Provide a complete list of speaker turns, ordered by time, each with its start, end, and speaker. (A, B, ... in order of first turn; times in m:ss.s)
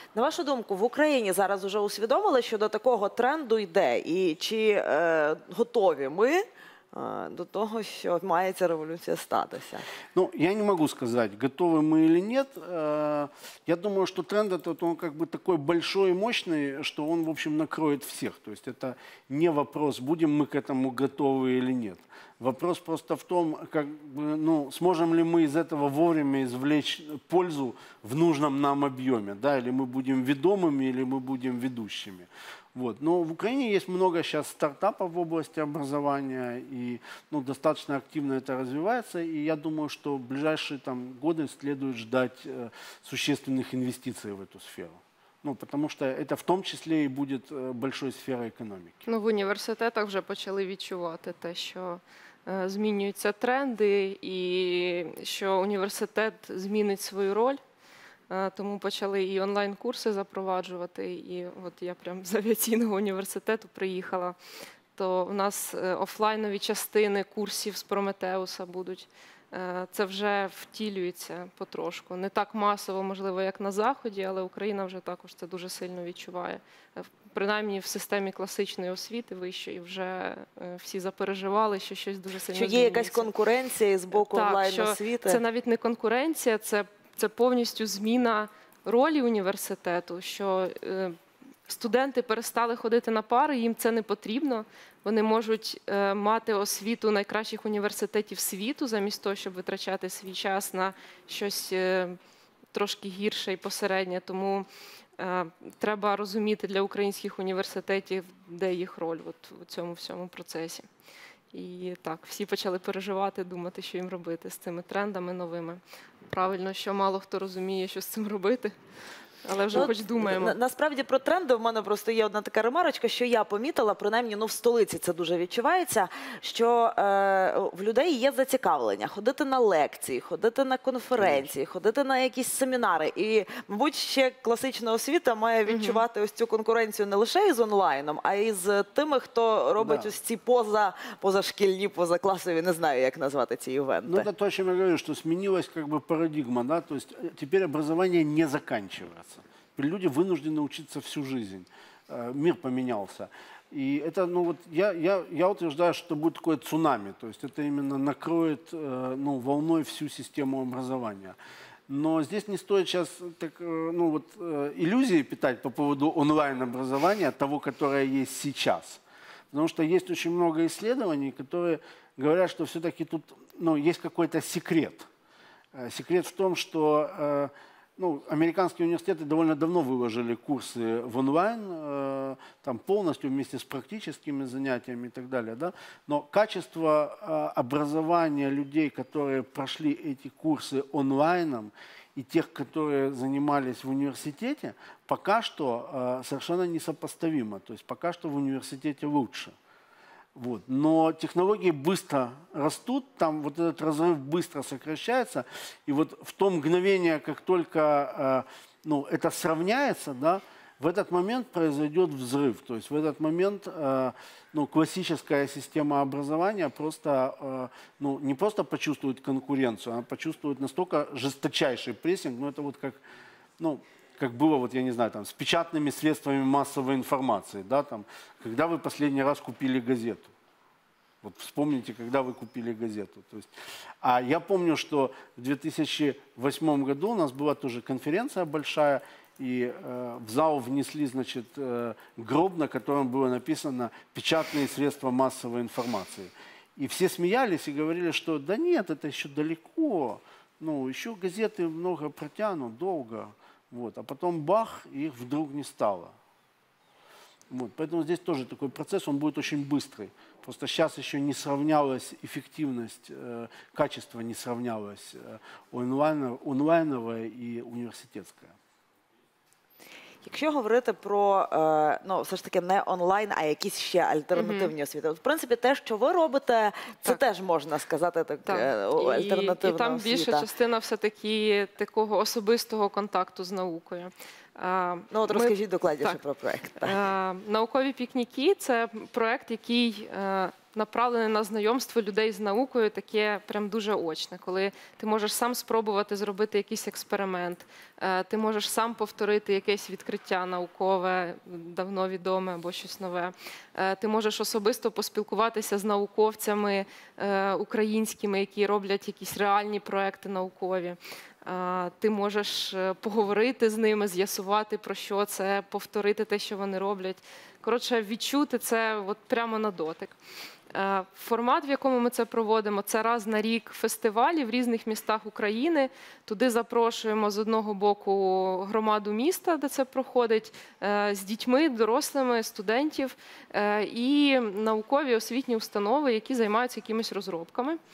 0:00.1-0:09.8 A
0:10.1-0:49.0 B
0:49.1-0:57.6 C
0:58.3-1:04.4 C
1:04.9-1:23.3 C
1:22.5-1:25.4 A
1:24.1-1:31.1 C
1:31.7-1:42.2 C
1:42.7-1:44.7 C
1:45.2-1:50.9 C
1:51.5-1:58.7 C
1:59.4-2:00.6 C
1:59.7-2:24.2 A
2:11.2-2:11.5 B
2:15.7-2:16.0 C
2:19.8-2:20.1 B
2:24.0-2:41.4 B
2:41.9-2:55.1 B
2:55.7-3:19.5 B
3:20.3-3:43.0 B
3:43.6-3:50.3 B
3:51.2-3:53.5 B
3:54.0-4:16.1 B
4:17.5-4:28.5 B
4:30.2-4:40.4 A
4:34.4-4:34.7 C
4:38.4-4:46.2 C
4:45.1-4:47.0 A
4:46.8-5:20.2 C
5:20.7-5:37.8 C